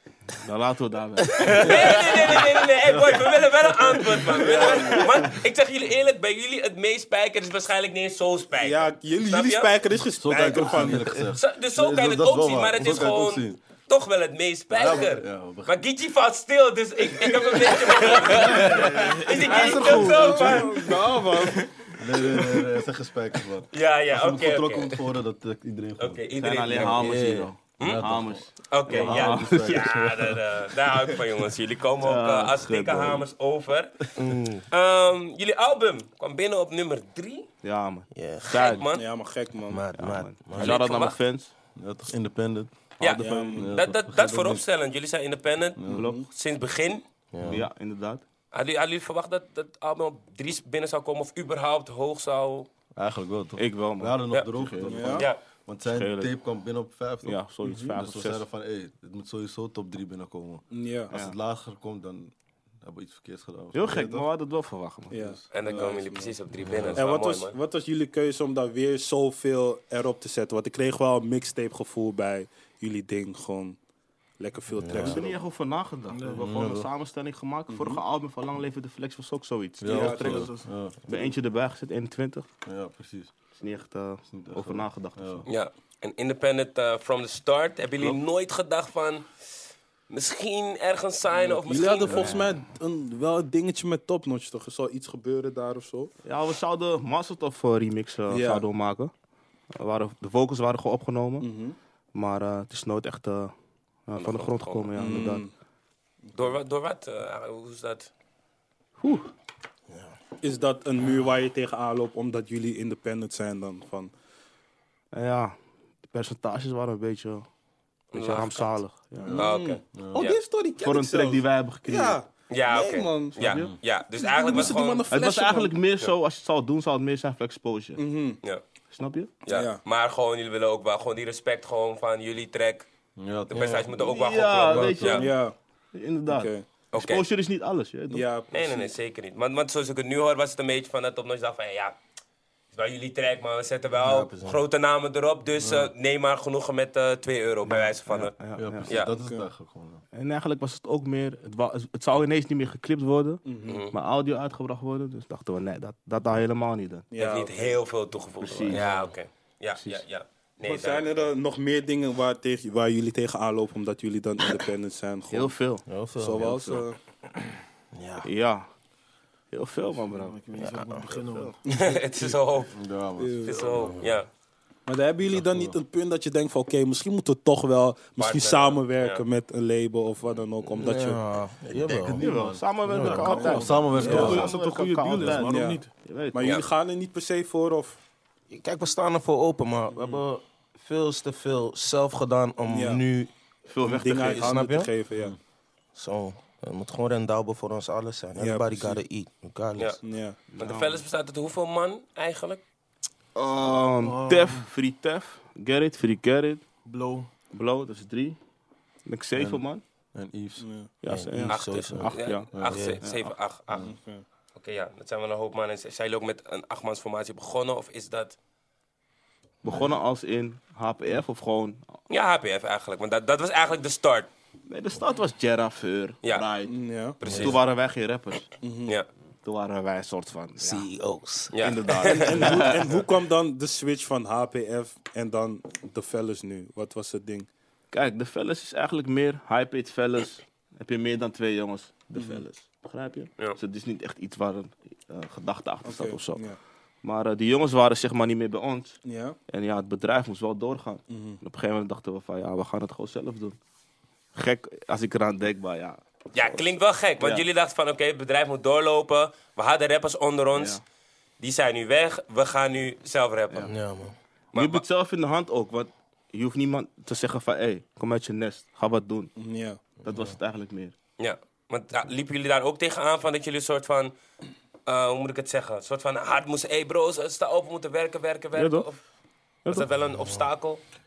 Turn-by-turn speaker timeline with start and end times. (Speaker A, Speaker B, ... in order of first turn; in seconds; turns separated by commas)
Speaker A: 0.4-2.4, Speaker B: 1.4-9.7, Speaker C: 4.3-5.1, Speaker C: 8.6-11.2, Speaker D: 10.0-13.6, Speaker B: 11.3-21.0, Speaker D: 14.7-15.7, Speaker D: 18.2-21.0, Speaker C: 19.4-21.8, Speaker E: 21.0-21.3, Speaker D: 21.9-26.3, Speaker B: 23.7-25.0, Speaker B: 26.0-27.2, Speaker A: 26.3-29.9, Speaker F: 26.8-27.5, Speaker B: 27.8-34.1, Speaker D: 27.8-30.4, Speaker A: 32.0-33.3, Speaker F: 34.2-34.6, Speaker B: 34.7-37.5, Speaker A: 37.6-38.9, Speaker F: 38.1-38.7, Speaker B: 38.5-39.0, Speaker C: 38.9-39.8, Speaker F: 39.7-40.8, Speaker A: 40.0-41.5, Speaker B: 40.6-41.2, Speaker D: 41.8-44.6, Speaker A: 43.0-43.7, Speaker B: 43.0-47.0, Speaker C: 43.2-43.8, Speaker D: 45.8-46.1, Speaker C: 45.9-46.2, Speaker F: 47.3-47.6, Speaker A: 47.4-48.2, Speaker B: 48.5-52.7, Speaker D: 53.0-64.3, Speaker A: 53.6-55.1, Speaker C: 54.9-55.2, Speaker B: 55.1-55.4, Speaker A: 55.8-56.3, Speaker A: 57.2-58.4, Speaker C: 60.7-61.1, Speaker A: 61.1-61.4, Speaker A: 63.7-65.2, Speaker C: 65.1-66.3, Speaker D: 65.1-65.5, Speaker B: 65.5-67.6, Speaker F: 66.6-67.0, Speaker C: 67.0-73.8, Speaker C: 74.4-75.3, Speaker F: 74.8-75.2, Speaker A: 74.9-82.5, Speaker D: 75.0-75.3, Speaker E: 76.1-76.5, Speaker D: 76.3-76.9, Speaker C: 77.7-78.0, Speaker D: 79.8-81.3, Speaker C: 79.9-80.5, Speaker D: 82.7-83.3, Speaker A: 83.5-85.5, Speaker D: 84.3-85.5, Speaker B: 85.5-89.3, Speaker B: 90.1-92.4, Speaker C: 91.4-96.1, Speaker D: 92.1-92.4, Speaker A: 96.2-99.1, Speaker C: 98.3-98.6, Speaker A: 99.7-101.5, Speaker C: 101.4-101.8, Speaker A: 102.1-103.5, Speaker A: 104.1-105.5, Speaker B: 104.1-105.3, Speaker C: 105.0-105.5, Speaker B: 106.3-108.1, Speaker A: 109.0-109.3, Speaker C: 110.4-114.1, Speaker A: 115.1-115.5, Speaker A: 116.1-117.5, Speaker B: 118.1-118.7, Speaker A: 118.1-119.4, Speaker D: 119.2-120.2, Speaker C: 119.3-123.5, Speaker B: 119.3-120.4, Speaker A: 120.8-122.2, Speaker B: 122.5-125.1, Speaker A: 123.4-123.7, Speaker D: 123.4-123.8, Speaker C: 124.2-125.7, Speaker A: 125.1-128.0, Speaker C: 128.0-128.4, Speaker A: 128.9-129.3, Speaker B: 129.4-132.9, Speaker C: 129.5-129.8, Speaker D: 133.2-135.2, Speaker B: 133.5-135.3, Speaker A: 134.0-135.3, Speaker C: 135.1-135.5, Speaker A: 135.9-138.3, Speaker C: 136.3-136.6, Speaker B: 136.9-137.2, Speaker C: 138.1-138.9, Speaker B: 138.5-142.0, Speaker B: 142.7-148.3, Speaker F: 144.1-144.6, Speaker A: 147.7-148.9, Speaker D: 148.6-150.0, Speaker B: 148.9-149.1, Speaker A: 150.1-157.1, Speaker C: 153.4-153.8, Speaker B: 153.7-153.9, Speaker C: 157.1-157.8, Speaker B: 157.1-161.2, Speaker A: 158.4-158.8, Speaker F: 158.7-159.1, Speaker C: 160.6-165.6, Speaker A: 165.3-165.8, Speaker F: 165.9-166.7, Speaker C: 166.2-166.9, Speaker A: 166.4-166.8, Speaker F: 167.9-168.3, Speaker A: 168.2-168.7, Speaker A: 169.5-170.4, Speaker E: 170.1-171.6, Speaker F: 170.6-171.1, Speaker A: 171.1-171.5, Speaker B: 171.7-172.8, Speaker D: 172.7-174.1, Speaker C: 173.2-173.7, Speaker B: 173.4-174.3, Speaker C: 174.8-181.2, Speaker D: 175.3-175.8, Speaker B: 178.2-179.2, Speaker F: 180.7-182.2, Speaker D: 181.7-184.5, Speaker A: 182.2-186.4, Speaker F: 182.9-183.5, Speaker E: 183.0-185.9, Speaker C: 183.2-185.8, Speaker F: 184.0-184.3, Speaker C: 186.3-188.0, Speaker F: 188.5-193.3, Speaker C: 189.9-190.2, Speaker C: 192.7-193.0, Speaker A: 193.7-194.5, Speaker C: 193.8-195.3, Speaker F: 194.2-194.9, Speaker F: 195.9-200.0, Speaker C: 198.4-199.0, Speaker C: 200.0-200.4, Speaker A: 200.5-201.0, Speaker B: 200.5-202.6, Speaker A: 203.3-206.6, Speaker E: 204.0-204.7, Speaker E: 206.8-207.3, Speaker A: 207.5-208.4, Speaker A: 209.1-209.8, Speaker D: 209.3-210.7, Speaker C: 210.6-210.9, Speaker A: 211.0-213.3, Speaker F: 211.1-213.0, Speaker B: 211.5-213.9, Speaker C: 213.8-214.2, Speaker B: 214.6-218.3, Speaker A: 219.6-221.9, Speaker B: 222.1-224.3, Speaker A: 224.7-228.5, Speaker C: 226.7-227.2, Speaker B: 227.2-227.6, Speaker C: 228.6-228.9, Speaker A: 229.4-230.9, Speaker F: 230.6-231.5, Speaker B: 231.5-232.5, Speaker A: 231.6-233.0, Speaker C: 232.1-237.5, Speaker A: 237.9-246.4, Speaker C: 242.2-242.4, Speaker C: 245.8-246.6, Speaker A: 247.0-253.6, Speaker C: 249.1-249.3, Speaker C: 251.1-251.4, Speaker A: 254.3-257.4, Speaker B: 256.3-260.8, Speaker A: 260.5-260.8, Speaker B: 261.4-263.7, Speaker F: 263.6-264.1, Speaker B: 264.5-264.8, Speaker A: 264.5-269.3, Speaker C: 269.4-269.8, Speaker A: 270.0-270.9, Speaker F: 270.0-270.3, Speaker B: 271.2-274.1, Speaker B: 274.9-279.0, Speaker A: 278.5-278.9, Speaker B: 279.7-280.8, Speaker F: 280.1-280.5